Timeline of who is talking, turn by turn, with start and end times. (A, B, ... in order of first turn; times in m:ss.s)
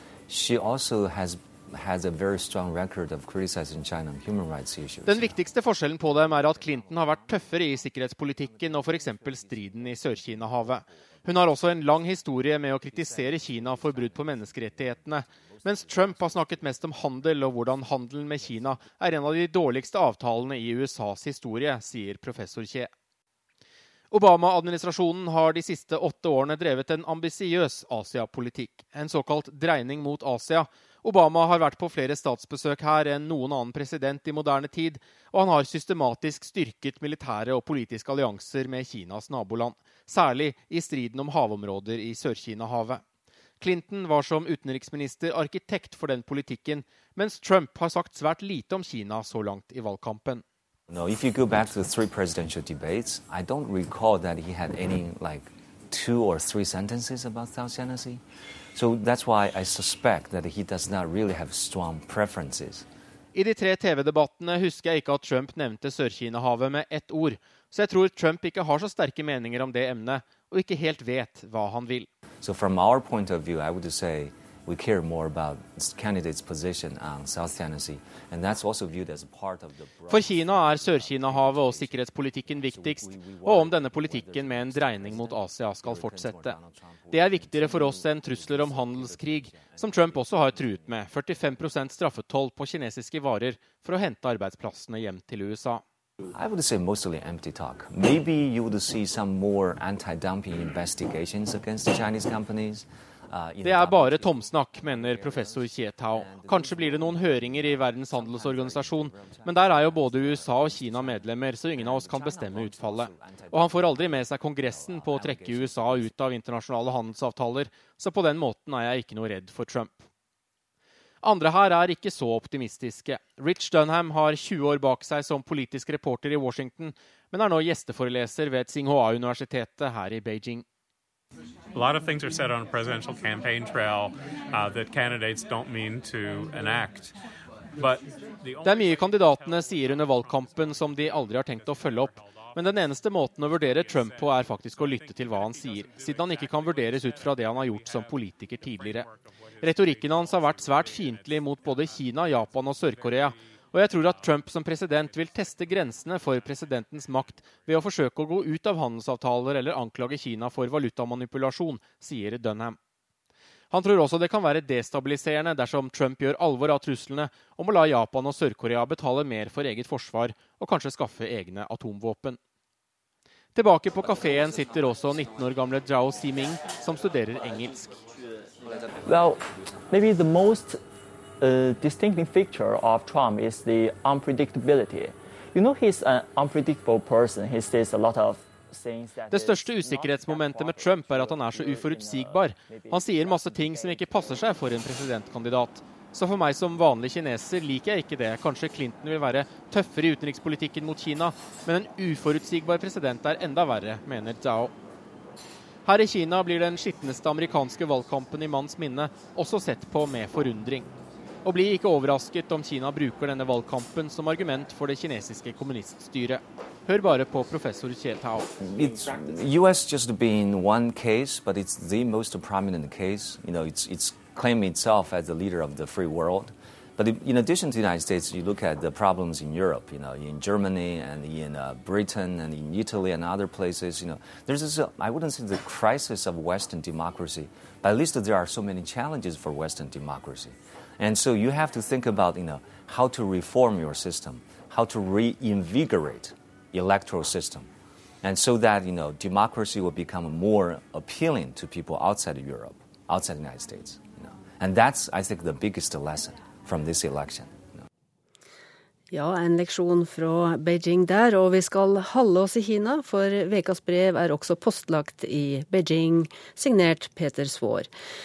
0:00.3-0:05.4 A
0:05.1-0:22.9 B
0:06.4-0:07.4 A
0:08.4-0:10.9 A
0:12.9-0:19.0 A
0:24.1-0:43.0 B
0:43.6-0:50.4 B
0:50.9-0:58.2 A
0:58.8-1:02.9 A
1:03.3-1:12.1 B
1:12.4-1:31.7 A
1:20.1-1:35.8 B
1:36.3-1:56.2 A
1:43.6-2:00.0 B
2:01.2-2:10.6 B
2:11.7-2:17.1 C
2:17.8-2:22.6 C
2:18.6-2:29.1 B
2:23.6-2:34.4 C
2:29.6-2:42.8 B
2:43.7-2:52.4 B
2:53.6-2:58.0 B
2:59.0-3:00.8 D
3:01.4-3:14.4 D
3:09.3-3:24.7 B
3:25.9-3:30.9 B
3:31.4-3:38.5 B
3:38.5-4:07.7 A
4:08.2-4:17.7 A
4:19.1-4:27.9 E